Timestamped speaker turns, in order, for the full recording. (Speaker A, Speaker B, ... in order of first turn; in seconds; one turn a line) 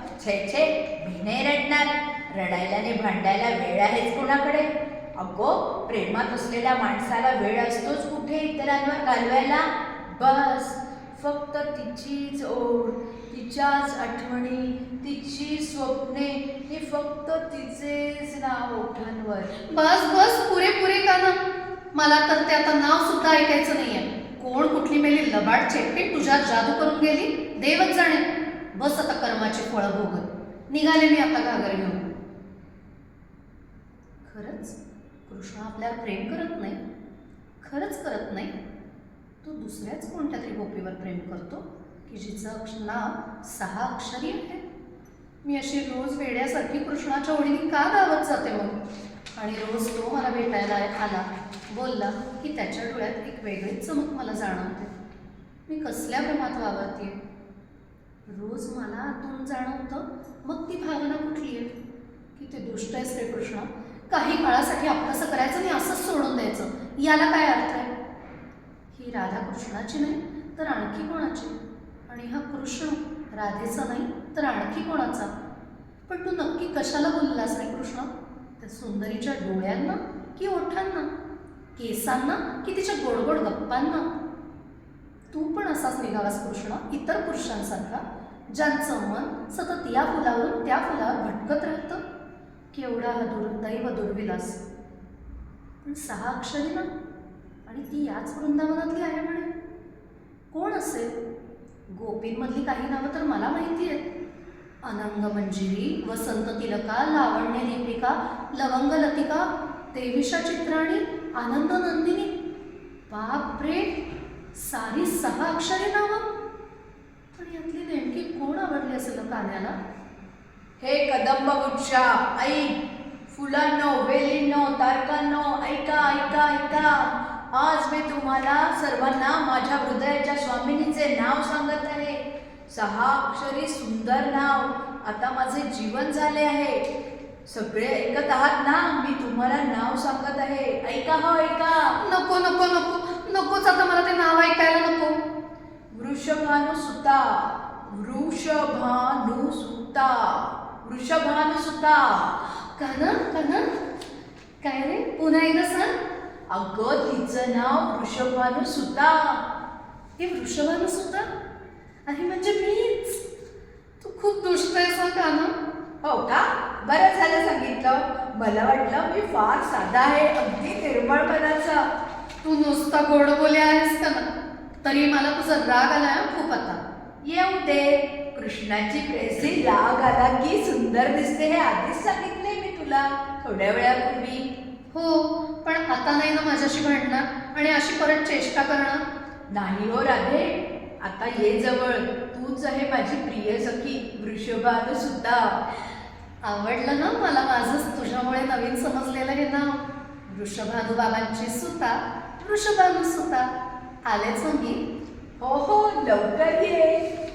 Speaker A: 0.2-19.5
Speaker B: 19.6-21.4
Speaker B: 21.9-32.1
Speaker B: 34.2-36.8
Speaker B: 37.6-38.5
Speaker B: 39.4-44.6
Speaker B: 45.4-48.8
Speaker B: 49.4-54.9
Speaker B: 55.7-57.2
Speaker B: 58.3-61.7
Speaker B: 62.4-67.9
Speaker B: 68.9-71.5
Speaker B: 72.1-75.3
Speaker B: 76.1-81.1
Speaker B: 81.8-84.1
Speaker B: 85.3-92.0
Speaker B: 92.7-94.6
Speaker B: 95.8-96.9
Speaker B: 97.7-99.5
Speaker B: 100.5-101.1
Speaker B: 101.9-104.0
Speaker B: 104.8-112.3
Speaker B: 113.1-113.9
Speaker B: 114.5-116.2
Speaker B: 117.4-119.8
Speaker A: 120.8-122.7
Speaker A: 123.3-136.8
Speaker A: 137.5-142.0
Speaker B: 142.0-145.2
Speaker A: 145.9-152.3
Speaker B: 152.7-153.7
Speaker B: 154.6-155.9
Speaker A: 156.5-159.4
Speaker B: 160.2-161.3
Speaker B: 162.1-163.2
Speaker B: 164.0-165.5
Speaker A: 166.0-171.9
Speaker B: 172.4-174.3
Speaker B: 174.8-176.8
Speaker A: 177.2-184.5
Speaker B: 184.9-189.0
Speaker A: 189.5-195.6
Speaker B: 196.4-203.5
Speaker B: 204.1-204.8
Speaker A: 205.4-207.1